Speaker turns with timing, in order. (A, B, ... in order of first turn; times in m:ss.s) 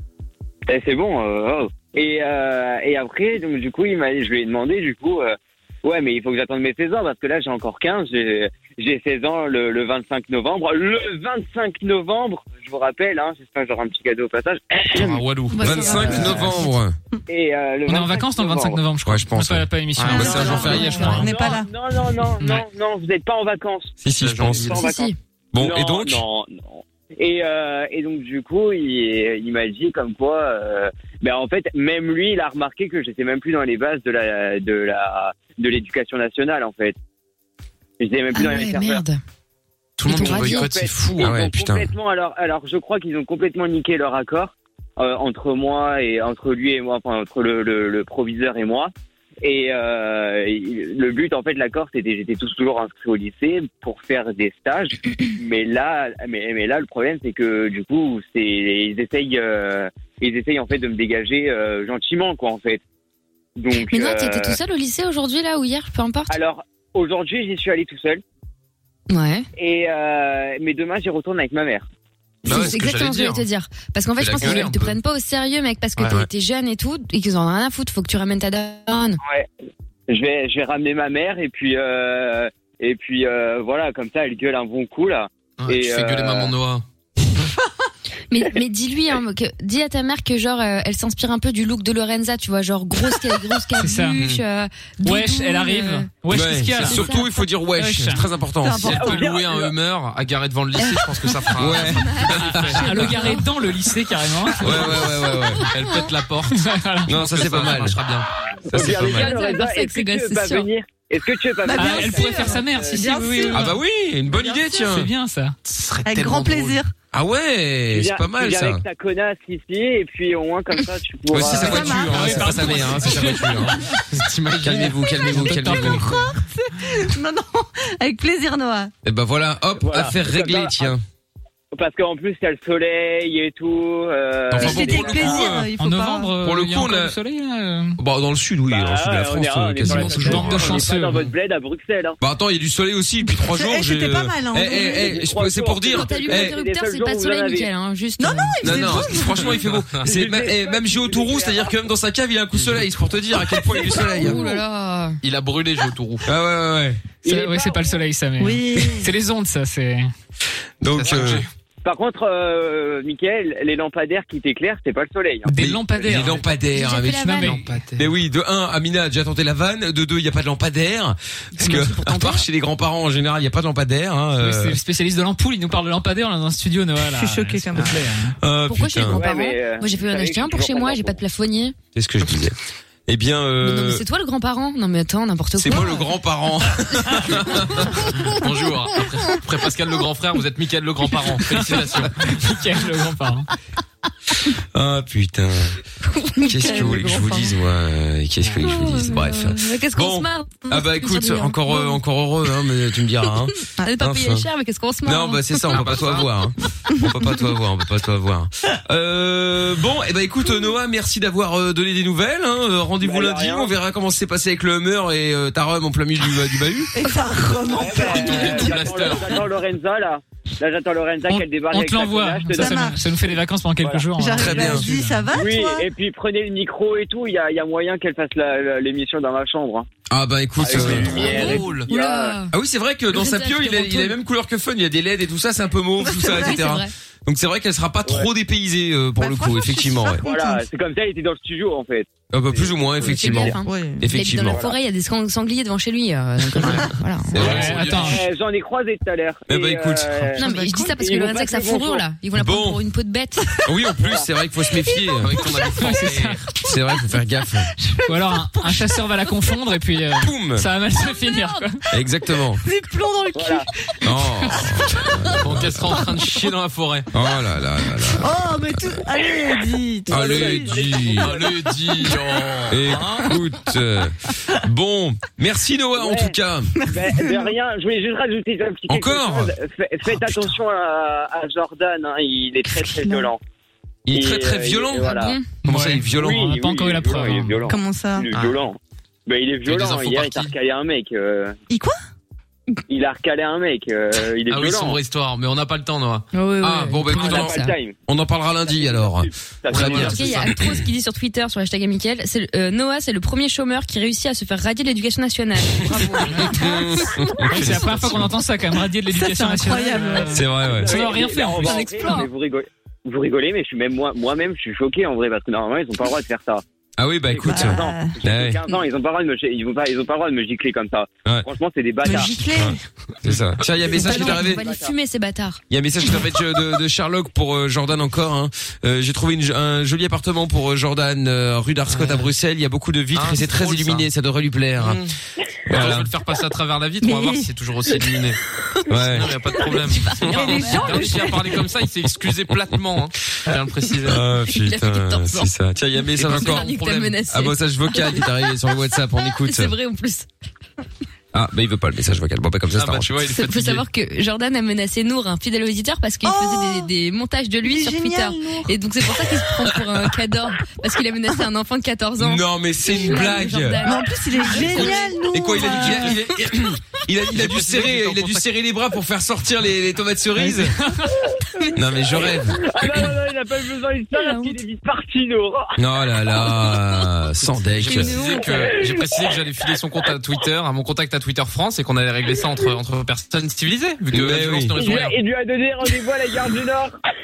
0:00.7-0:15.2 A
0:14.9-0:16.6 B
0:15.6-0:16.6 C
0:15.6-0:16.9 D
0:15.6-0:16.6 E
0:17.3-0:18.8 A
0:17.8-0:21.3 F
0:19.0-0:21.2 D
0:20.0-0:20.6 B
0:20.1-0:21.7 C
0:20.2-0:21.2 E
0:21.2-0:37.0 A
0:22.4-0:22.6 F
0:24.0-0:24.8 D
0:24.1-0:24.9 B
0:24.7-0:25.2 E
0:25.5-0:26.2 D
0:38.0-0:39.0 A
0:38.3-0:39.2 E
0:40.0-0:41.4 B
0:40.0-0:48.9 A
0:40.1-0:40.7 E
0:41.2-0:41.9 D
0:49.4-1:02.8 A
1:03.6-1:04.6 A
1:03.8-1:06.3 E
1:06.3-1:08.2 A
1:09.1-1:09.4 E
1:09.6-1:11.8 A
1:12.4-1:13.4 B
1:12.4-1:19.2 E
1:14.2-1:15.0 B
1:14.4-1:14.6 D
1:20.1-1:26.5 A
1:25.6-1:26.8 B
1:28.3-1:36.1 E
1:33.8-1:34.2 F
1:35.0-1:37.2 F
1:36.3-1:38.9 D
1:36.8-1:37.4 E
1:37.8-1:38.2 F
1:38.6-1:39.3 C
1:38.8-1:43.3 B
1:38.9-1:39.7 A
1:41.0-1:41.4 C
1:41.6-1:42.8 D
1:42.0-1:43.4 E
1:42.3-1:45.0 F
1:44.6-1:45.6 D
1:45.7-1:48.3 B
1:45.8-1:46.0 E
1:46.5-1:47.1 F
1:47.1-1:48.0 D
1:48.7-1:53.6 A
1:48.7-1:49.3 D
1:48.8-1:50.7 E
1:51.6-1:53.8 C
1:51.7-1:53.6 F
1:53.5-1:55.1 D
1:54.3-1:54.7 C
1:54.8-1:55.5 F
1:55.6-1:56.8 B
1:56.0-1:56.9 C
1:57.1-1:58.8 D
1:57.9-2:02.9 A
2:01.3-2:03.8 D
2:01.4-2:02.5 C
2:02.0-2:04.0 F
2:04.1-2:05.0 B
2:04.6-2:06.0 D
2:05.3-2:06.4 F
2:05.7-2:08.9 C
2:09.0-2:11.0 D
2:09.8-2:10.9 A
2:11.7-2:15.5 A
2:14.5-2:15.7 D
2:14.5-2:16.4 C
2:15.8-2:18.0 F
2:16.4-2:17.2 D
2:18.0-2:20.9 D
2:18.7-2:22.2 A
2:19.8-2:21.2 F
2:22.2-2:26.6 D
2:23.4-2:25.2 C
2:24.7-2:27.7 A
2:25.9-2:28.9 E
2:28.2-2:29.5 C
2:28.6-2:34.4 D
2:29.2-2:30.2 B
2:30.0-2:31.8 A
2:32.5-2:32.8 B
2:33.5-2:34.6 C
2:34.2-2:35.2 E
2:35.2-2:36.3 B
2:36.2-2:37.1 D
2:37.2-2:38.0 A
2:37.2-2:40.1 F
2:38.4-2:39.1 C
2:40.8-2:41.4 D
2:40.9-2:41.5 B
2:41.8-2:45.5 A
2:45.5-2:46.4 F
2:45.6-2:54.8 D
2:46.1-2:46.4 B
2:46.7-2:47.5 E
2:47.2-2:47.8 F
2:47.4-2:48.1 B
2:51.6-2:52.4 E
2:54.4-2:58.3 F
2:57.1-2:58.0 C
2:58.4-2:59.2 D
2:58.7-3:01.7 E
2:59.1-3:01.2 A
3:01.9-3:02.6 D
3:03.1-3:04.0 D
3:03.6-3:06.0 E
3:05.6-3:08.0 D
3:08.1-3:12.4 B
3:12.3-3:13.5 F
3:14.7-3:15.8 D
3:16.1-3:17.4 E
3:16.4-3:24.5 D
3:16.5-3:17.4 C
3:18.6-3:22.0 E
3:23.8-3:25.6 E
3:25.0-3:36.9 D
3:25.7-3:26.3 B
3:33.0-3:33.7 A
3:36.9-3:39.2 C
3:37.7-3:44.1 A
3:38.0-3:39.4 B
3:41.3-3:45.3 F
3:42.5-3:43.0 C
3:44.1-3:45.9 C
3:44.4-3:44.8 D
3:45.3-3:49.9 A
3:50.1-3:51.3 D
3:50.6-3:52.4 A
3:50.6-3:51.9 B
3:51.0-3:52.5 E
3:52.5-4:00.2 D
3:53.1-3:54.2 E
3:56.0-3:56.6 C
3:56.3-3:56.9 E
3:58.0-3:58.3 A
3:59.2-4:00.6 C
4:00.2-4:03.5 A
4:02.3-4:04.6 D
4:03.0-4:07.4 E
4:03.6-4:04.0 C
4:04.4-4:04.8 A
4:07.3-4:07.9 D
4:07.3-4:08.3 B
4:07.4-4:08.2 F
4:08.0-4:12.0 A
4:09.5-4:10.4 D
4:10.4-4:13.6 E
4:10.4-4:10.9 C
4:12.3-4:12.8 D
4:13.6-4:15.4 D
4:14.0-4:14.3 A
4:15.2-4:16.4 B
4:15.8-4:16.5 F
4:16.6-4:17.7 D
4:17.8-4:19.3 C
4:18.1-4:21.8 F
4:20.2-4:20.7 D
4:21.9-4:22.6 D
4:22.6-4:24.1 C
4:23.3-4:23.7 A
4:24.0-4:25.9 D
4:25.4-4:27.1 B
4:25.8-4:26.2 C
4:27.1-4:29.0 D
4:28.2-4:30.8 C
4:30.1-4:31.3 D
4:30.1-4:31.6 A
4:31.1-4:33.1 B
4:32.7-4:36.7 D
4:35.9-4:43.4 A
4:36.7-4:37.5 C
4:38.9-4:39.5 D
4:40.1-4:40.4 D
4:42.8-4:43.3 C
4:44.1-4:46.5 D
4:44.1-4:45.4 A
4:45.0-4:45.5 E
4:45.6-4:47.6 F
4:46.1-4:51.6 A
4:47.6-4:48.3 C
4:49.6-4:50.5 B
4:51.7-4:52.0 C
4:52.9-4:55.0 A
4:54.5-4:56.3 B
4:56.3-4:57.7 E
4:56.6-5:00.8 D
4:57.1-4:58.0 A
4:58.6-5:00.2 A
4:59.7-5:00.2 B
4:59.8-5:07.0 E
5:06.3-5:07.8 D
5:07.5-5:12.2 F
5:07.5-5:08.3 B
5:09.1-5:10.4 C
5:10.3-5:11.0 D
5:10.6-5:16.6 A
5:11.2-5:12.3 C
5:17.0-5:18.6 D
5:17.2-5:22.4 A
5:17.4-5:18.2 C
5:22.0-5:22.8 C
5:22.5-5:24.6 D
5:23.9-5:25.6 E
5:24.0-5:24.9 A
5:24.0-5:24.5 C
5:25.7-5:35.0 D
5:31.9-5:32.3 B
5:33.1-5:34.1 B
5:34.8-5:35.1 B
5:35.7-5:36.1 D
5:35.7-5:38.4 B
5:37.0-5:37.4 C
5:38.9-5:39.4 D
5:38.9-5:44.2 B
5:40.1-5:41.6 C
5:44.0-5:49.7 D
5:44.5-5:45.5 E
5:46.1-5:47.1 B
5:46.2-5:48.3 E
5:49.2-5:50.3 E
5:51.3-5:53.1 D
5:52.8-5:53.8 B
5:53.4-6:05.2 E
5:56.2-5:56.9 C
5:57.6-5:58.8 C
6:02.2-6:03.9 D
6:03.0-6:06.2 C
6:04.5-6:10.8 D
6:05.6-6:06.2 B
6:07.3-6:08.5 B
6:10.4-6:11.2 F
6:11.7-6:13.1 D
6:12.0-6:15.7 A
6:14.2-6:14.5 E
6:15.8-6:18.2 D
6:17.7-6:25.2 B
6:17.9-6:18.6 E
6:18.7-6:19.0 A
6:24.1-6:24.8 D
6:24.7-6:26.9 A